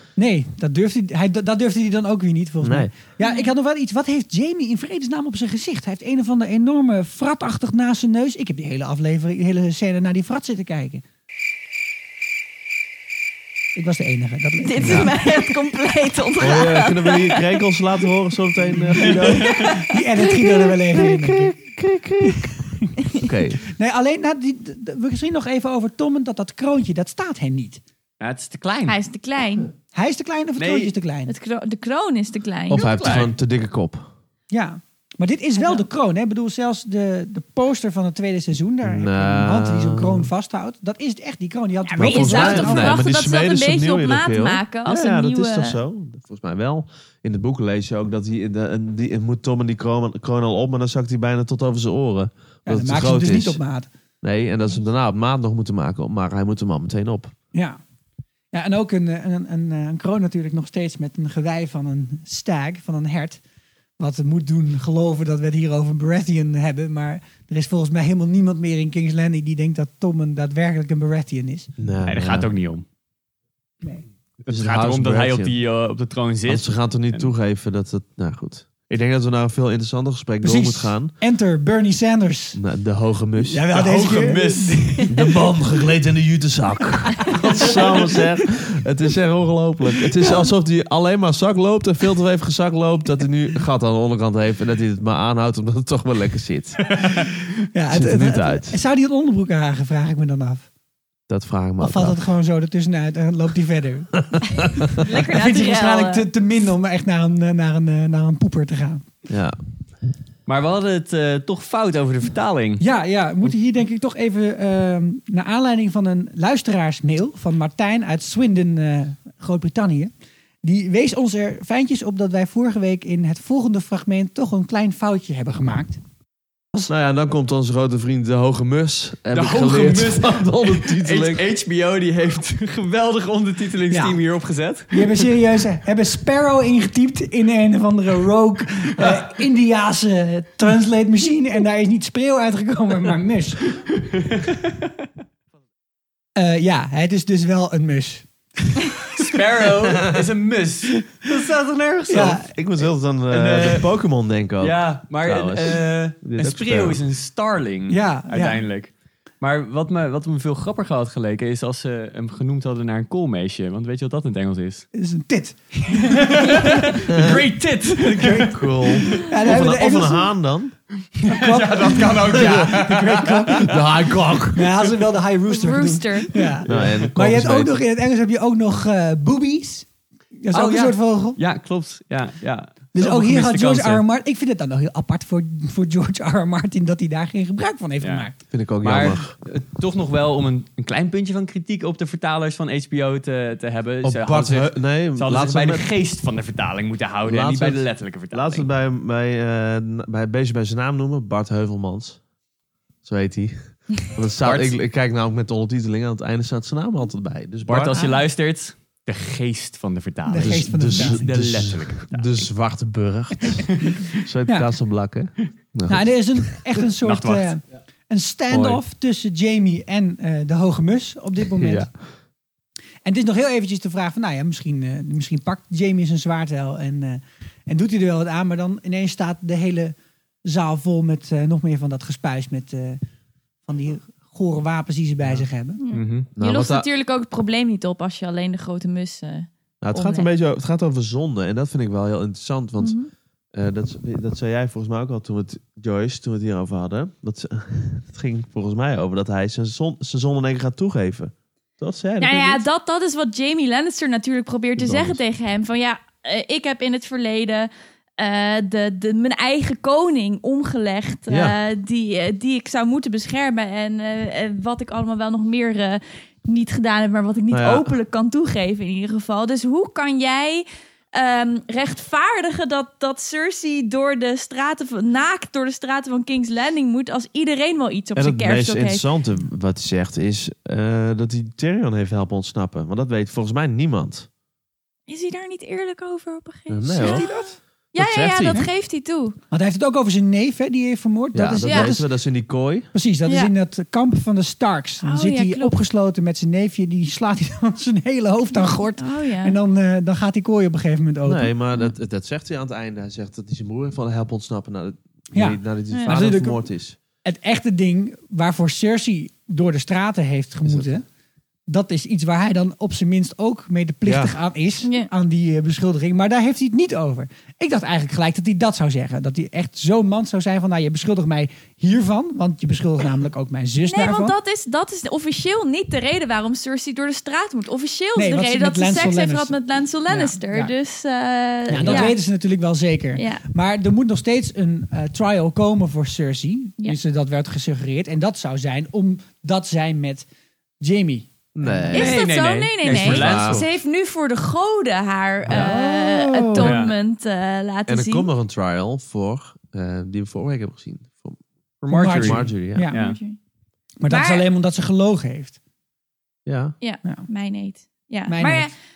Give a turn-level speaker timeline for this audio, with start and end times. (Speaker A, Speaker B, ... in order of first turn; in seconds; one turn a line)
Speaker A: 0.2-11.0
Speaker B: 2.6-2.9
Speaker C: 3.2-3.5
Speaker A: 13.7-15.1
Speaker C: 14.6-17.4
Speaker B: 14.8-15.2
Speaker B: 16.4-19.7
Speaker A: 19.6-21.6
Speaker B: 20.9-22.6
Speaker A: 22.6-22.9
Speaker B: 23.1-23.6
Speaker A: 23.7-27.8
Speaker D: 28.2-29.0
Speaker C: 28.9-29.7
Speaker A: 29.9-31.3
Speaker D: 30.6-30.9
Speaker C: 31.3-33.1
Speaker B: 32.7-34.1
Speaker D: 32.8-33.3
Speaker A: 34.5-43.0
Speaker C: 35.6-35.8
Speaker B: 38.8-40.3
Speaker C: 41.9-45.8
Speaker B: 42.0-53.6
Speaker A: 52.6-53.9
Speaker B: 54.2-57.3
Speaker A: 57.5-57.8
Speaker A: 58.5-63.4
Speaker A: 64.0-71.7
Speaker B: 71.8-72.5
Speaker D: 72.0-72.8
Speaker D: 74.4-77.3
Speaker B: 74.5-75.5
Speaker B: 76.5-81.1
Speaker A: 80.4-82.6
Speaker B: 82.5-83.6
Speaker A: 83.4-85.1
Speaker D: 83.7-85.1
Speaker B: 85.1-97.0
Speaker A: 97.7-100.7
Speaker B: 97.9-98.8
Speaker B: 101.3-102.2
Speaker A: 101.8-109.0
Speaker B: 104.3-104.6
Speaker C: 105.0-106.3
Speaker B: 109.3-109.6
Speaker D: 110.5-112.8
Speaker A: 112.8-120.1
Speaker A: 120.6-126.0
Speaker B: 126.8-131.4
Speaker D: 129.3-135.3
Speaker A: 133.9-134.2
Speaker A: 134.9-143.6
Speaker D: 144.0-144.7
Speaker A: 146.3-148.8
Speaker D: 149.1-152.3
Speaker B: 152.1-157.0
Speaker A: 152.1-152.5
Speaker D: 153.3-153.9
Speaker D: 154.6-164.9
Speaker A: 157.9-158.6
Speaker A: 164.9-167.0
Speaker D: 166.1-169.2
Speaker B: 167.1-167.4
Speaker A: 168.0-170.3
Speaker B: 168.4-170.7
Speaker D: 171.2-173.7
Speaker A: 171.3-173.7
Speaker B: 172.2-172.8
Speaker B: 173.5-174.7
Speaker A: 174.5-179.9
Speaker C: 175.5-176.5
Speaker B: 176.7-177.8
Speaker D: 176.7-177.1
Speaker A: 180.4-181.4
Speaker D: 180.5-184.0
Speaker A: 182.9-188.3
Speaker D: 188.0-188.3
Speaker B: 188.5-189.3
Speaker D: 188.8-198.7
Speaker B: 194.0-195.9
Speaker B: 197.2-202.2
Speaker B: 203.0-208.0
Speaker D: 204.4-204.7
Speaker D: 207.7-212.5
Speaker C: 207.9-208.2
Speaker A: 210.3-211.2
Speaker B: 210.4-216.4
Speaker D: 213.7-214.0
Speaker A: 215.9-221.9
Speaker D: 217.0-217.5
Speaker B: 218.5-218.8
Speaker B: 221.6-221.9
Speaker A: 223.0-229.9
Speaker A: 230.4-233.0
Speaker A: 233.7-235.8
Speaker C: 235.8-240.3
Speaker D: 235.9-236.3
Speaker B: 236.3-236.9
Speaker B: 239.8-243.0
Speaker C: 242.8-243.1
Speaker B: 243.5-252.6
Speaker C: 252.2-279.0
Speaker B: 254.8-255.2
Speaker B: 261.3-261.6
Speaker B: 267.5-267.9
Speaker B: 278.1-284.3
Speaker C: 285.1-289.4
Speaker B: 286.7-287.3
Speaker A: 286.9-287.6
Speaker B: 287.9-288.6
Speaker A: 289.5-292.1
Speaker B: 291.3-292.9
Speaker C: 291.6-291.9
Speaker A: 292.9-301.5
Speaker C: 293.2-293.5
Speaker C: 295.0-295.7
Speaker C: 298.5-299.6
Speaker B: 301.2-307.0
Speaker A: 305.3-306.6
Speaker A: 307.2-311.0
Speaker B: 310.6-311.0
Speaker A: 311.7-324.4
Speaker B: 314.0-314.4
Speaker C: 314.8-315.1
Speaker C: 323.9-332.2
Speaker A: 328.1-329.5
Speaker A: 330.1-330.7
Speaker A: 331.7-340.3
Speaker B: 331.7-332.1
Speaker C: 333.1-333.4
Speaker A: 340.8-342.1
Speaker B: 341.5-342.2
Speaker C: 341.9-348.3
Speaker D: 341.9-343.7
Speaker B: 342.8-343.7
Speaker B: 345.5-345.8
Speaker A: 345.5-346.6
Speaker D: 346.6-346.9
Speaker B: 347.9-351.4
Speaker D: 351.8-353.2
Speaker A: 351.9-353.0
Speaker B: 352.0-352.9
Speaker C: 352.9-353.4
Speaker A: 354.0-355.6
Speaker C: 354.1-354.4
Speaker B: 356.4-356.8
Speaker C: 356.8-358.7
Speaker A: 358.3-358.7